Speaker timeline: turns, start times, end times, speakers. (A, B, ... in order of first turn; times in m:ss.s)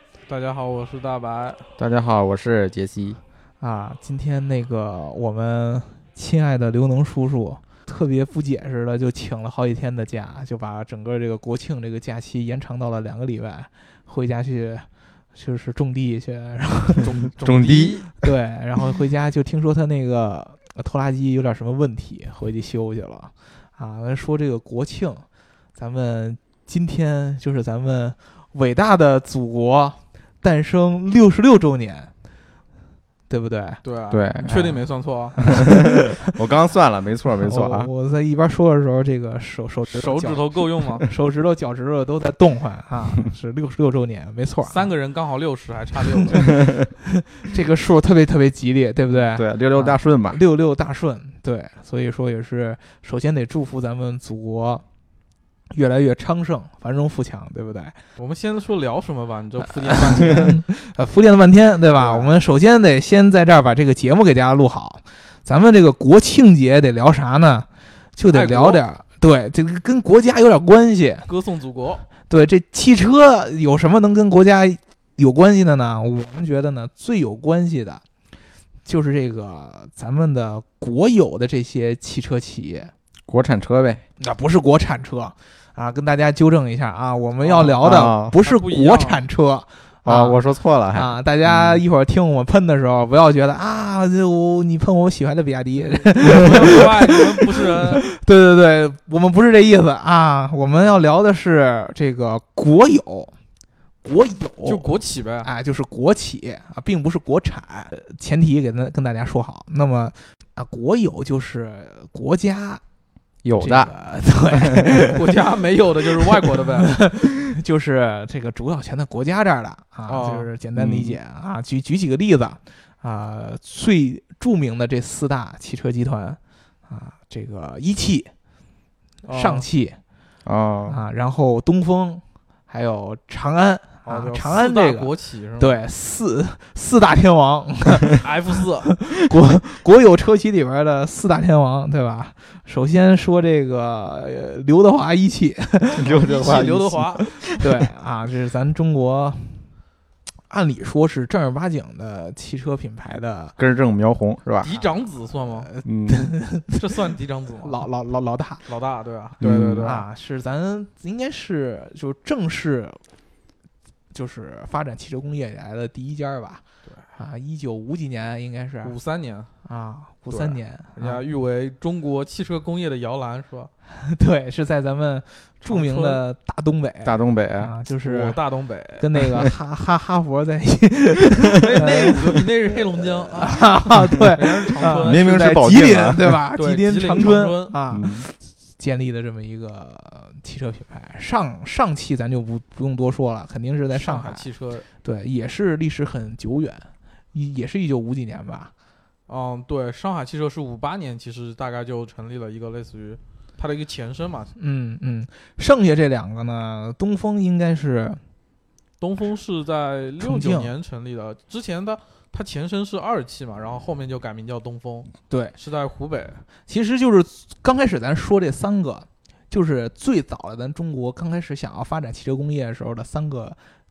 0:00.3-0:01.6 A
0:01.8-0:03.2 B
0:03.6-0:17.1 C
0:17.0-0:18.0 A
0:17.4-0:18.1 B
0:18.2-0:25.2 C
0:25.8-0:32.1 C
0:33.3-0:33.8 C
0:33.8-0:35.4 A
0:34.1-0:34.8 B
0:35.4-0:36.2 C
0:35.5-0:37.9 B
0:37.4-0:44.9 C
0:39.9-0:41.0 A
0:44.6-0:46.6 A
0:46.1-0:54.8 C
0:46.5-0:46.8 B
0:49.3-0:50.4 B
0:55.7-0:58.0 C
0:58.2-1:00.6 A
0:59.8-1:11.3 C
1:02.0-1:02.3 A
1:08.3-1:08.8 A
1:11.3-1:12.0 A
1:12.3-1:18.0 C
1:18.8-1:22.9 C
1:23.3-1:24.0 B
1:24.2-1:43.3 C
1:27.4-1:29.2 A
1:27.8-1:28.3 B
1:30.0-1:31.8 B
1:35.9-1:38.0 A
1:44.0-1:52.8 C
1:44.6-1:45.5 A
1:53.4-1:53.9 B
1:53.6-1:55.4 C
1:54.9-1:56.9 A
1:56.1-2:08.3 C
2:00.1-2:00.5 A
2:00.8-2:01.2 B
2:09.2-2:09.6 A
2:09.3-2:10.0 C
2:10.4-2:11.0 B
2:10.9-2:18.3 C
2:14.0-2:15.8 A
2:18.1-2:18.9 A
2:18.9-2:26.2 C
2:26.0-2:27.3 B
2:26.0-2:27.3 A
2:27.5-2:29.6 C
2:30.5-2:33.6 C
2:33.6-2:34.7 B
2:34.6-2:35.7 A
2:35.5-2:37.1 C
2:35.8-2:36.3 B
2:36.7-2:37.8 A
2:37.6-2:38.6 C
2:38.6-2:40.0 A
2:39.4-2:40.0 B
2:39.4-2:43.0 C
2:44.1-2:46.6 C
2:47.1-2:48.9 C
2:48.8-2:49.5 A
2:49.6-2:51.2 C
2:50.3-2:53.7 A
2:54.0-2:58.4 C
2:55.6-2:56.2 A
2:57.0-2:57.7 B
2:58.0-2:59.0 A
2:59.0-3:02.4 C
3:01.6-3:03.7 A
3:01.7-3:02.1 B
3:03.4-3:14.5 C
3:04.0-3:06.4 B
3:04.4-3:05.3 A
3:06.5-3:07.8 A
3:07.9-3:08.3 B
3:13.9-3:14.9 A
3:15.0-3:18.7 C
3:19.3-3:24.5 A
3:24.6-3:28.2 C
3:29.0-3:36.4 A
3:30.2-3:30.7 C
3:36.6-3:43.6 C